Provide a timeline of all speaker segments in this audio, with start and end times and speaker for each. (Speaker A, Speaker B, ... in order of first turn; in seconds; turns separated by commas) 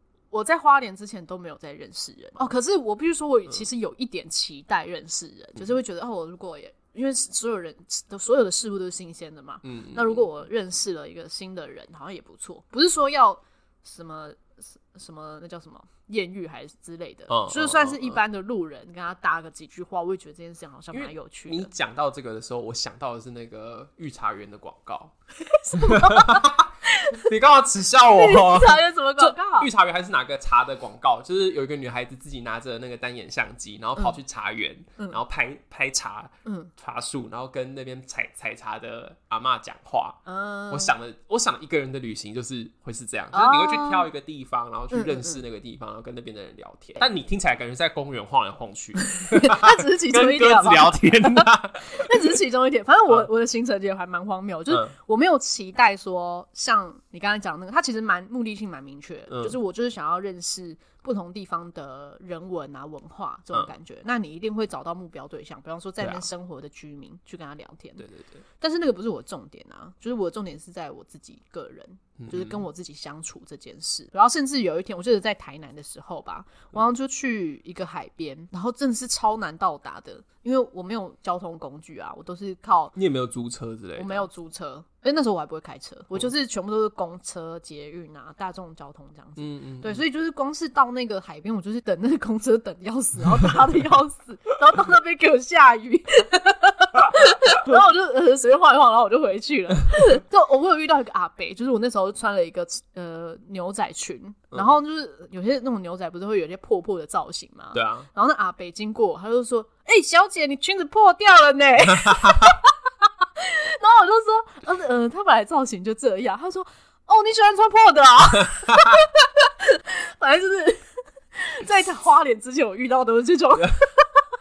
Speaker A: 0.3-21.7, Speaker B: 9.6-10.3, Speaker B: 17.3-18.2, Speaker B: 20.9-25.1, Speaker A: 25.4-27.3, Speaker B: 25.7-52.4, Speaker A: 28.1-29.7, Speaker A: 36.5-36.7, Speaker A: 40.3-40.9, Speaker A: 43.3-44.1, Speaker A: 44.9-45.4, Speaker A: 49.0-68.1, Speaker B: 59.3-59.6, Speaker B: 66.0-66.3, Speaker B: 68.0-68.4, Speaker A: 68.6-83.0, Speaker B: 72.2-72.6, Speaker B: 83.0-84.3, Speaker A: 84.0-112.7, Speaker B: 89.4-90.0, Speaker B: 107.7-108.1, Speaker B: 111.9-112.5, Speaker A: 113.4-120.8, Speaker B: 118.5-119.0, Speaker A: 121.4-124.2